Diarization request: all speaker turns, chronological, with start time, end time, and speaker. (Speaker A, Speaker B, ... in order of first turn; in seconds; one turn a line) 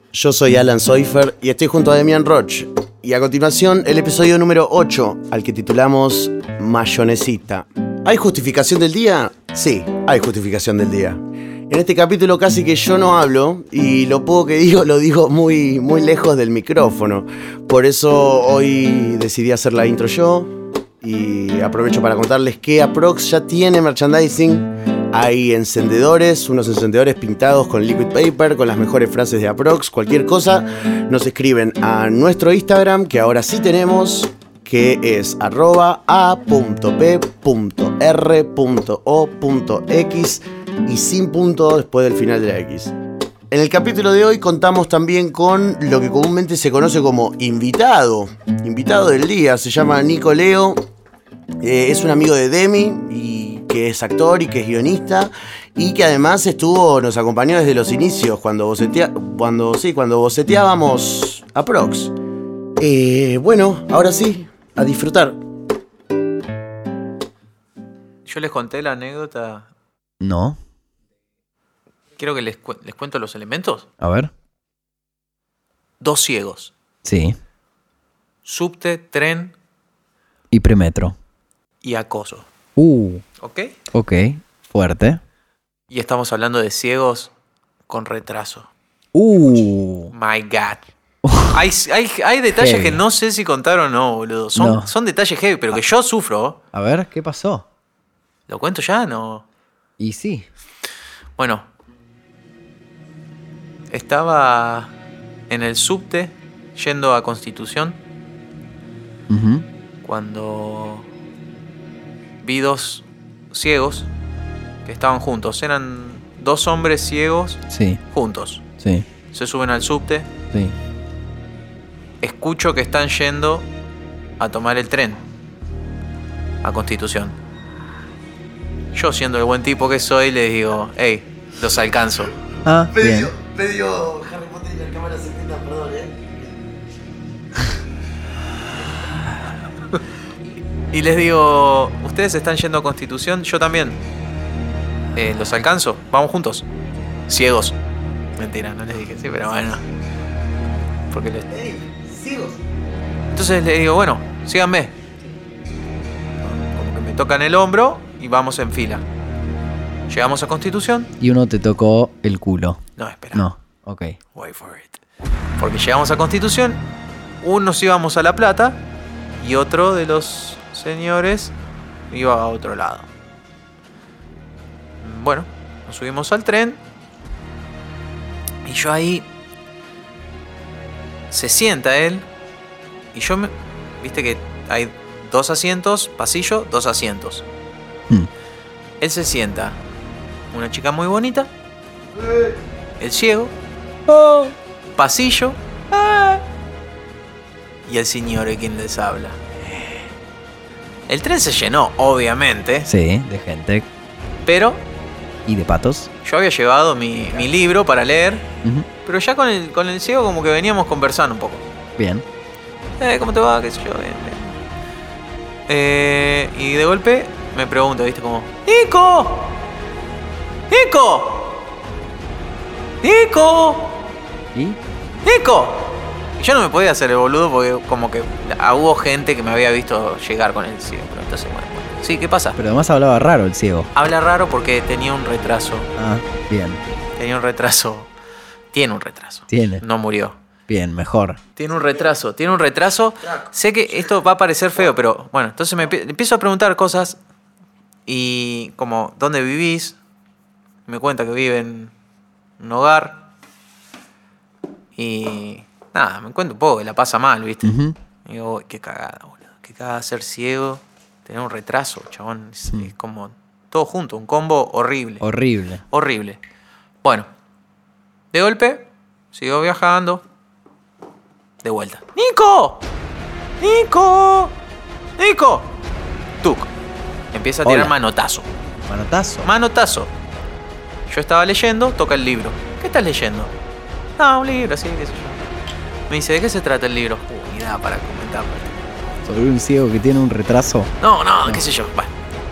Speaker A: 0.1-20.5
Speaker A: 21.0-42.9
Speaker A: 43.5-50.8
Speaker A: 51.6-62.1
Speaker A: 62.8-65.3
Speaker B: 68.2-69.7
Speaker C: 70.2-70.6
Speaker B: 72.2-73.9
Speaker C: 74.0-74.3
Speaker B: 76.0-76.7
Speaker C: 77.0-77.3
Speaker B: 78.4-79.5
Speaker C: 80.5-81.2
Speaker B: 81.8-82.5
Speaker C: 82.8-83.2
Speaker B: 83.4-83.7
Speaker C: 83.9-85.2
Speaker B: 85.9-87.3
Speaker B: 87.9-88.7
Speaker C: 89.1-90.1
Speaker B: 90.1-90.8
Speaker C: 91.2-91.5
Speaker B: 91.5-96.6
Speaker C: 92.5-93.0
Speaker C: 94.5-94.9
Speaker C: 96.7-97.7
Speaker B: 98.5-99.4
Speaker C: 100.0-100.5
Speaker B: 101.4-101.7
Speaker B: 103.9-104.9
Speaker B: 105.5-108.0
Speaker C: 109.3-109.7
Speaker B: 110.0-111.1
Speaker B: 112.4-114.1
Speaker B: 114.8-118.6
Speaker C: 117.7-118.0
Speaker B: 119.3-120.3
Speaker B: 122.2-123.7
Speaker B: 124.4-125.2
Speaker B: 126.6-127.3
Speaker B: 128.9-132.3
Speaker C: 132.6-133.3
Speaker A: 132.9-136.4
Speaker B: 140.9-144.0
Speaker B: 145.1-146.7
Speaker B: 147.3-147.8
Speaker B: 148.3-149.8
Speaker B: 151.1-151.5
Speaker A: 151.5-152.6
Speaker B: 153.3-154.9
Speaker B: 156.4-159.0
Speaker B: 160.1-161.1
Speaker C: 161.2-162.8
Speaker B: 163.0-163.4
Speaker C: 163.3-164.2
Speaker B: 164.3-165.0
Speaker B: 165.6-166.8
Speaker B: 167.4-168.8
Speaker B: 169.4-171.5
Speaker B: 172.1-173.1
Speaker B: 175.0-176.8
Speaker B: 178.6-179.3
Speaker B: 181.3-182.3
Speaker B: 183.1-187.4
Speaker B: 189.0-189.8
Speaker B: 190.5-191.5
Speaker B: 193.0-193.5
Speaker C: 194.1-194.5
Speaker B: 194.9-196.4
Speaker B: 197.8-199.4
Speaker B: 201.1-202.9
Speaker C: 202.8-203.9
Speaker B: 204.4-204.8
Speaker C: 205.4-206.1
Speaker B: 206.2-208.4
Speaker B: 209.0-211.6
Speaker C: 212.0-212.2
Speaker B: 213.0-214.6
Speaker B: 215.7-219.5
Speaker B: 220.7-221.6
Speaker B: 223.0-223.9
Speaker C: 224.5-224.8
Speaker B: 225.2-232.6
Speaker C: 232.6-233.9
Speaker B: 233.9-235.9
Speaker C: 235.9-236.8
Speaker B: 237.2-238.1
Speaker B: 238.7-240.3
Speaker C: 239.5-239.8
Speaker C: 240.7-241.4
Speaker B: 241.6-247.2
Speaker B: 248.1-250.0
Speaker B: 250.9-251.9
Speaker B: 252.6-253.2
Speaker B: 254.9-257.7
Speaker C: 257.6-257.9
Speaker B: 258.2-265.2
Speaker C: 265.2-265.8
Speaker B: 265.9-266.4
Speaker B: 267.0-267.3
Speaker B: 268.3-270.2
Speaker B: 271.6-272.8
Speaker B: 273.6-274.5
Speaker B: 275.2-275.8
Speaker B: 276.4-276.7
Speaker B: 277.3-278.5
Speaker C: 277.6-277.9
Speaker C: 278.9-279.5
Speaker B: 279.4-280.1
Speaker B: 281.1-283.5
Speaker B: 284.2-285.4
Speaker B: 286.1-288.8
Speaker C: 289.2-290.9
Speaker B: 291.0-292.1